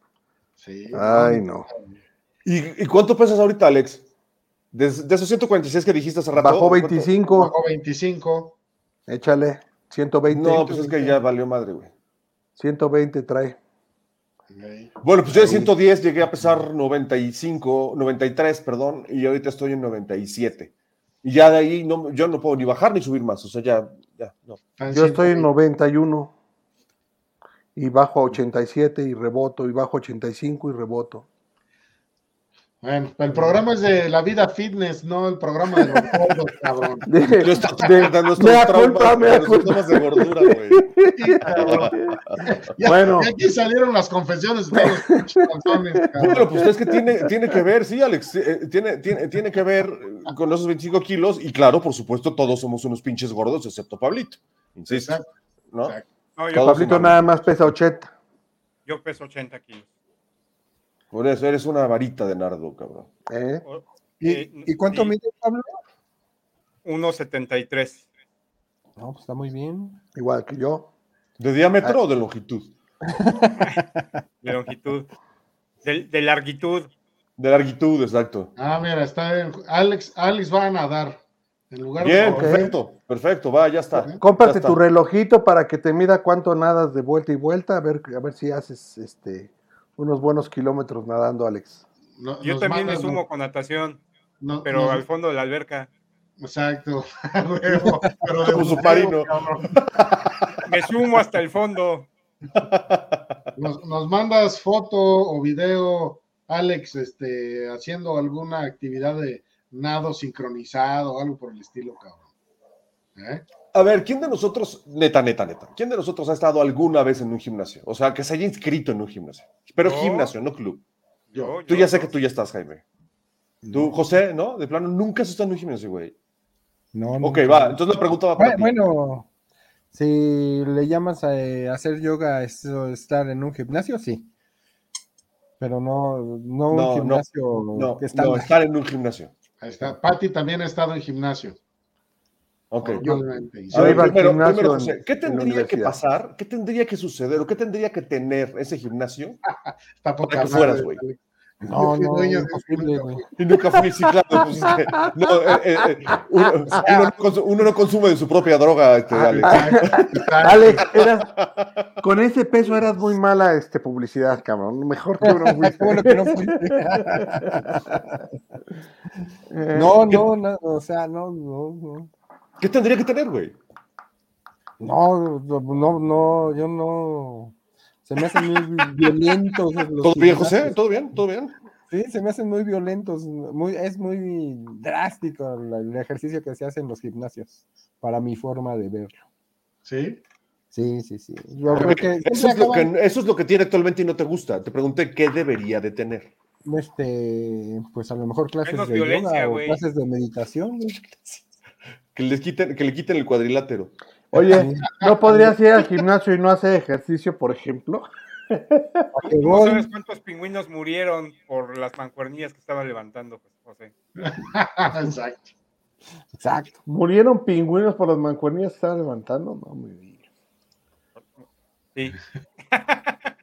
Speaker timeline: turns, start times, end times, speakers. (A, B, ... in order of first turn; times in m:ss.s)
0:00.6-0:01.9 A
0:00.9-0:01.7 B
0:02.4-0:04.0 C
0:04.7-0:07.1 C
0:06.4-0:07.5 B
0:07.3-0:08.6 A
0:09.1-0:11.2 B
0:10.3-0:11.9 C
0:12.6-0:13.6 B
0:14.5-0:15.6 A
0:15.0-0:20.7 C
0:15.4-0:15.7 B
0:21.2-0:24.6 C
0:24.8-0:25.5 A
0:24.9-0:26.3 B
0:27.8-0:31.2 B
0:32.8-0:38.0 A
0:37.0-0:41.8 B
0:37.4-0:42.2 C
0:41.2-0:46.5 A
0:42.8-0:43.3 B
0:44.8-0:47.6 B
0:46.2-0:55.2 C
0:54.9-0:55.3 A
0:56.4-0:56.7 D
0:56.5-0:57.7 C
0:56.6-0:58.1 B
0:58.8-0:59.9 D
1:01.1-1:03.1 C
1:03.3-1:03.6 B
1:03.6-1:05.1 D
1:04.2-1:05.8 E
1:06.8-1:08.0 D
1:09.0-1:10.0 E
1:10.1-1:10.9 B
1:11.4-1:12.7 C
1:13.1-1:14.0 E
1:14.4-1:15.1 D
1:15.8-1:16.9 D
1:17.4-1:18.5 C
1:18.6-1:21.2 A
1:21.7-1:22.8 A
1:22.0-1:24.8 C
1:22.3-1:22.7 B
1:23.9-1:24.2 A
1:24.2-1:31.8 B
1:32.2-1:33.2 A
1:32.4-1:34.0 D
1:34.4-1:35.0 A
1:34.6-1:35.9 D
1:36.4-1:39.8 A
1:38.4-1:40.4 C
1:40.6-1:42.1 D
1:42.6-1:43.2 C
1:43.5-1:52.2 A
1:53.2-1:53.4 A
1:53.7-2:00.8 C
1:59.8-2:00.3 D
2:01.3-2:02.1 D
2:01.6-2:02.8 C
2:03.6-2:03.9 E
2:03.7-2:06.1 C
2:06.9-2:07.8 E
2:07.2-2:08.7 C
2:08.4-2:09.3 E
2:09.9-2:14.3 E
2:15.6-2:18.5 E
2:16.7-2:19.3 C
2:19.6-2:21.6 A
2:22.7-2:23.1 C
2:22.8-2:24.2 A
2:23.7-2:29.4 C
2:23.7-2:26.0 B
2:30.0-2:33.3 A
2:30.3-2:31.0 C
2:31.6-2:33.2 E
2:33.4-2:40.2 C
2:34.3-2:34.7 B
2:35.5-2:35.8 B
2:36.7-2:37.2 A
2:39.1-2:39.4 E
2:39.4-2:40.9 A
2:39.4-2:41.3 B
2:41.0-2:41.8 C
2:42.0-2:47.8 B
2:45.2-2:48.2 E
2:49.5-2:50.2 B
2:49.7-2:52.1 E
2:52.6-2:53.6 C
2:54.8-3:00.8 E
3:00.0-3:01.5 C
3:01.9-3:09.2 E
3:09.8-3:10.2 A
3:10.7-3:12.9 E
3:11.6-3:12.0 A
3:11.7-3:16.3 C
3:16.6-3:21.4 E
3:18.6-3:19.8 D
3:22.1-3:23.9 C
3:24.3-3:29.0 B
3:24.5-3:25.5 E
3:24.9-3:25.2 A
3:29.1-3:29.9 E
3:29.2-3:33.9 D
3:34.2-3:35.5 A
3:36.3-3:36.8 E
3:36.8-3:40.2 B
3:42.7-3:43.1 D